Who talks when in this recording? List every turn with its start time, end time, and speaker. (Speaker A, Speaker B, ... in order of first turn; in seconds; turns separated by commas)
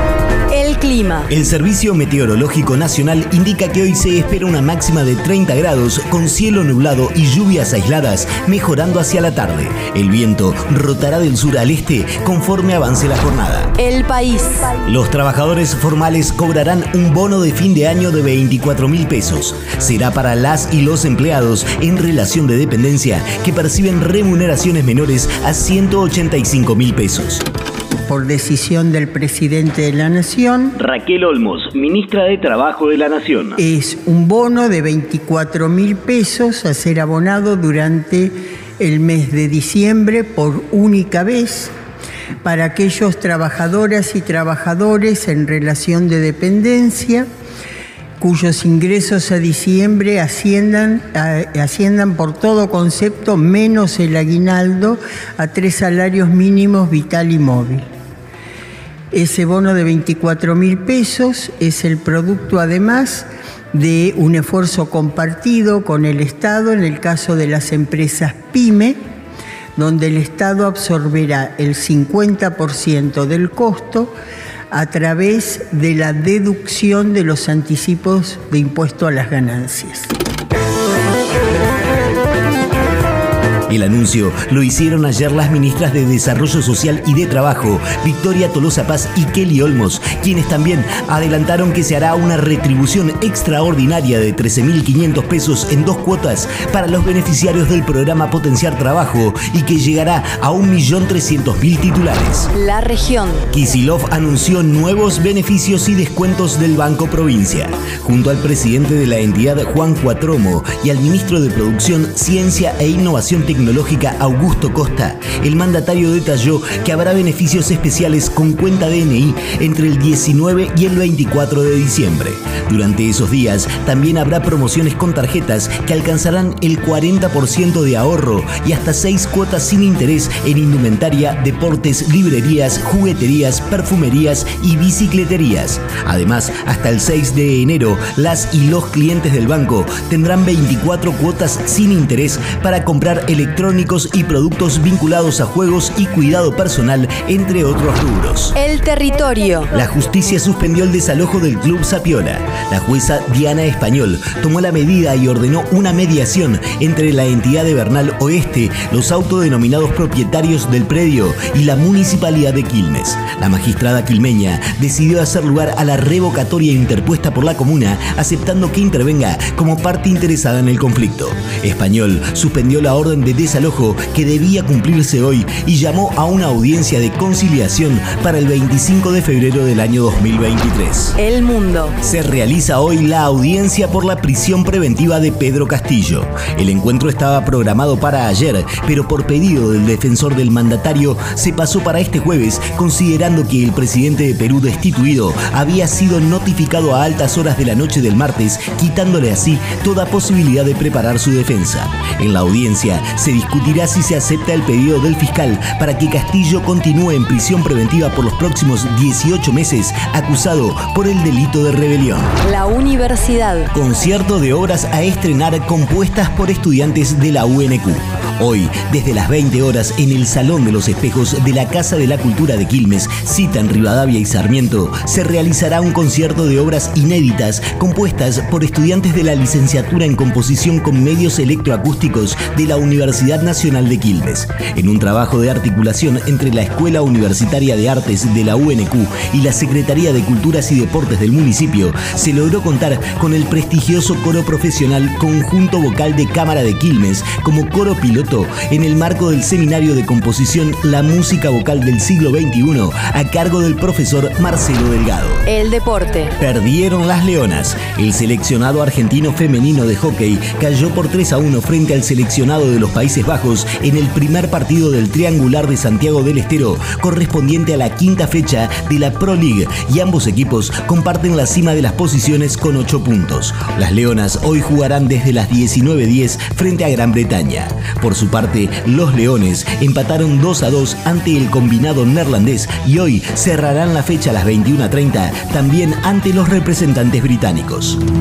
Speaker A: 0.5-1.3, Speaker B: 1.3-13.7, Speaker A: 13.8-14.8, Speaker B: 14.8-27.4, Speaker C: 28.1-30.8, Speaker B: 30.8-33.6, Speaker C: 33.6-41.7, Speaker C: 42.4-47.3, Speaker C: 48.2-57.9, Speaker C: 59.1-69.0, Speaker C: 69.8-74.1, Speaker C: 74.7-80.1, Speaker B: 83.7-102.5, Speaker A: 102.5-103.5, Speaker B: 103.5-148.6, Speaker A: 148.5-149.7, Speaker B: 149.7-181.2, Speaker A: 181.2-181.9, Speaker B: 182.0-212.3, Speaker A: 212.4-213.7, Speaker B: 213.7-255.4, Speaker A: 255.4-256.3, Speaker B: 256.4-288.0